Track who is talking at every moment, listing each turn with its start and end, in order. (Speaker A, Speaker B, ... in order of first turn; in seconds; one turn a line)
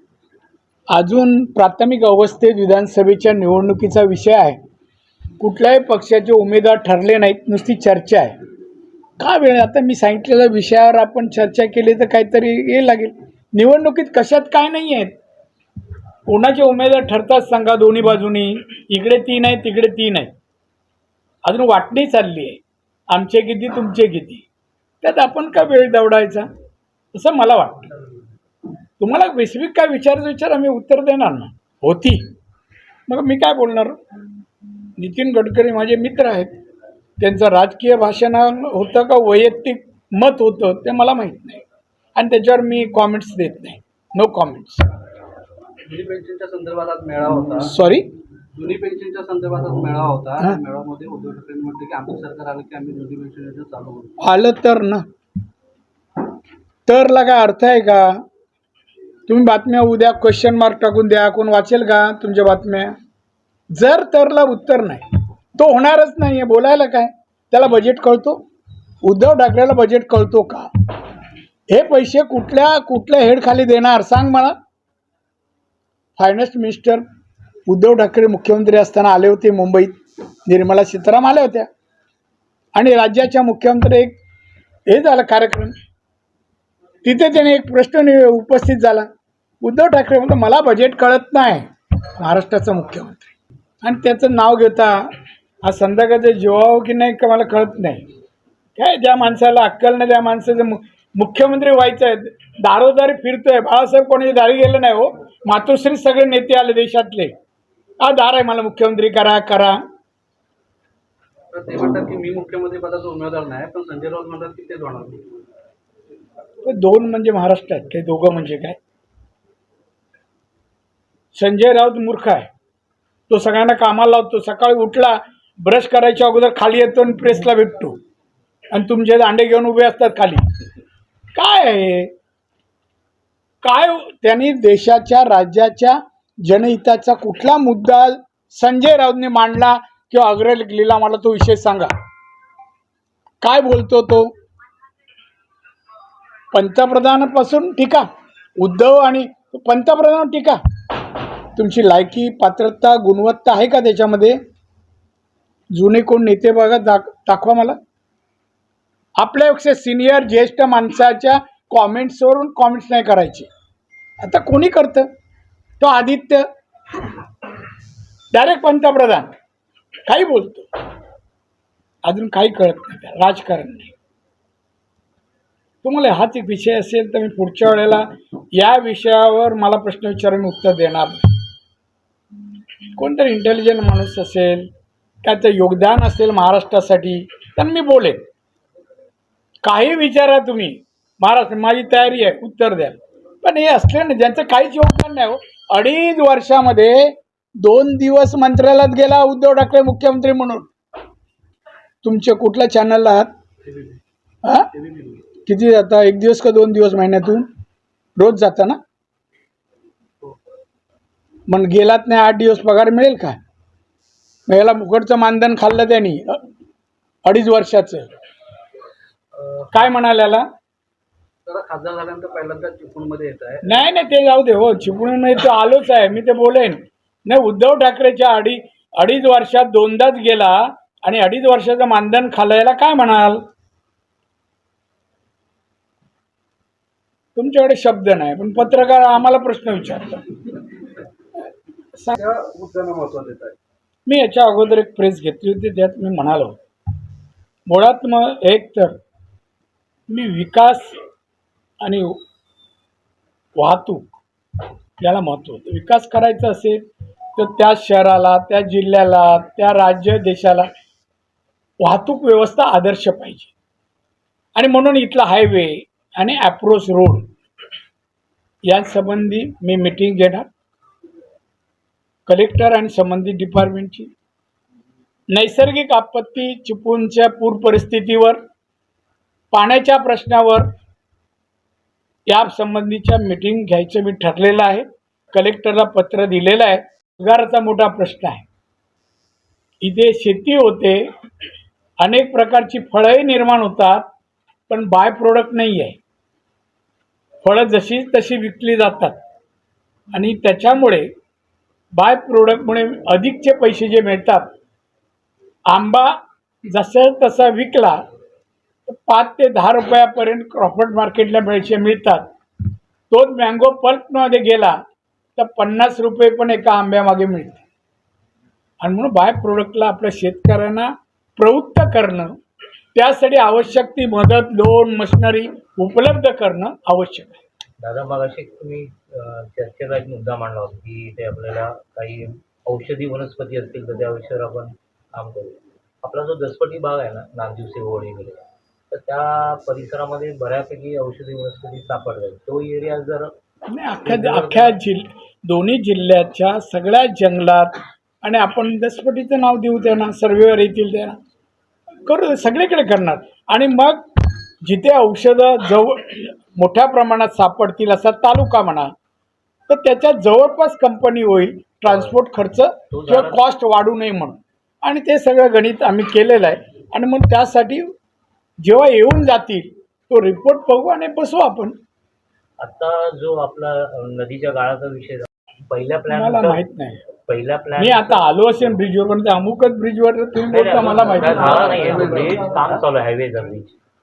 Speaker A: 0.9-4.6
Speaker A: 5.4-8.3
Speaker A: 9.2-15.1
Speaker A: 16.3-20.3
Speaker A: 21.4-24.4
Speaker A: 25.0-26.5
Speaker A: 27.1-27.9
Speaker A: 29.0-32.2
Speaker A: 33.1-34.0
Speaker A: 35.0-36.5
Speaker A: 37.2-41.6
Speaker A: 42.2-44.9
Speaker B: 45.9-47.7
Speaker A: 47.6-48.1
Speaker B: 48.5-54.2
Speaker A: 54.2-55.0
Speaker A: 56.9-58.2
Speaker A: 59.3-62.9
Speaker A: 63.7-65.0
Speaker A: 65.6-68.4
Speaker A: 69.0-70.7
Speaker A: 71.7-74.5
Speaker A: 76.2-77.0
Speaker A: 77.7-79.9
Speaker A: 80.5-81.7
Speaker A: 82.8-84.2
Speaker A: 84.9-85.7
Speaker A: 87.0-89.1
Speaker A: 89.6-95.0
Speaker A: 95.6-98.0
Speaker A: 98.8-107.3
Speaker A: 108.0-109.8
Speaker B: 111.5-115.3
Speaker A: 116.6-118.8
Speaker A: 121.3-122.5
Speaker A: 123.3-128.0
Speaker A: 128.7-130.4
Speaker A: 131.3-132.1
Speaker A: 133.6-141.9
Speaker A: 143.4-144.3
Speaker A: 146.5-148.0
Speaker A: 148.6-150.6
Speaker A: 151.5-154.3
Speaker A: 155.7-157.8
Speaker A: 159.2-163.5
Speaker A: 164.2-165.1
Speaker A: 165.8-166.4
Speaker A: 168.3-169.3
Speaker A: 170.1-170.7
Speaker A: 172.1-173.9
Speaker A: 175.8-178.1
Speaker A: 178.6-181.2
Speaker A: 182.9-184.7
Speaker A: 185.2-188.2
Speaker A: 189.6-200.7
Speaker A: 202.0-203.3
Speaker B: 203.7-204.0
Speaker A: 204.4-204.7
Speaker B: 204.7-205.2
Speaker A: 205.4-207.5
Speaker A: 208.2-208.8
Speaker A: 211.5-213.4
Speaker A: 214.5-216.4
Speaker A: 217.2-218.1
Speaker A: 219.7-220.4
Speaker B: 221.5-223.8
Speaker A: 223.6-233.4
Speaker A: 237.3-240.4
Speaker B: 242.1-243.6
Speaker A: 244.1-246.5
Speaker A: 247.7-249.0
Speaker A: 250.1-251.0
Speaker A: 251.8-252.2
Speaker A: 253.6-254.0
Speaker A: 255.0-256.8
Speaker A: 257.4-260.7
Speaker A: 261.8-263.5
Speaker A: 264.6-267.2
Speaker A: 268.7-270.5
Speaker A: 272.3-274.1
Speaker A: 275.3-278.4
Speaker A: 279.5-280.7
Speaker A: 282.3-288.4
Speaker A: 289.8-291.1
Speaker A: 292.0-294.1
Speaker A: 294.7-296.0
Speaker A: 297.4-299.2
Speaker A: 300.1-301.1
Speaker A: 301.9-304.5
Speaker A: 305.7-306.1
Speaker A: 306.7-308.0
Speaker A: 308.9-312.2
Speaker A: 313.1-314.8
Speaker A: 315.4-317.6
Speaker A: 318.8-322.4
Speaker A: 322.9-327.4
Speaker C: 327.8-343.3
Speaker A: 343.7-351.2
Speaker C: 344.1-344.8
Speaker A: 352.1-354.1
Speaker A: 354.6-358.9
Speaker A: 359.7-367.9
Speaker C: 361.9-362.2
Speaker C: 362.9-363.4
Speaker A: 368.6-371.8
Speaker C: 372.6-376.6
Speaker A: 376.1-377.0
Speaker C: 377.2-378.8
Speaker A: 377.8-382.0
Speaker C: 380.5-383.8
Speaker B: 381.1-382.8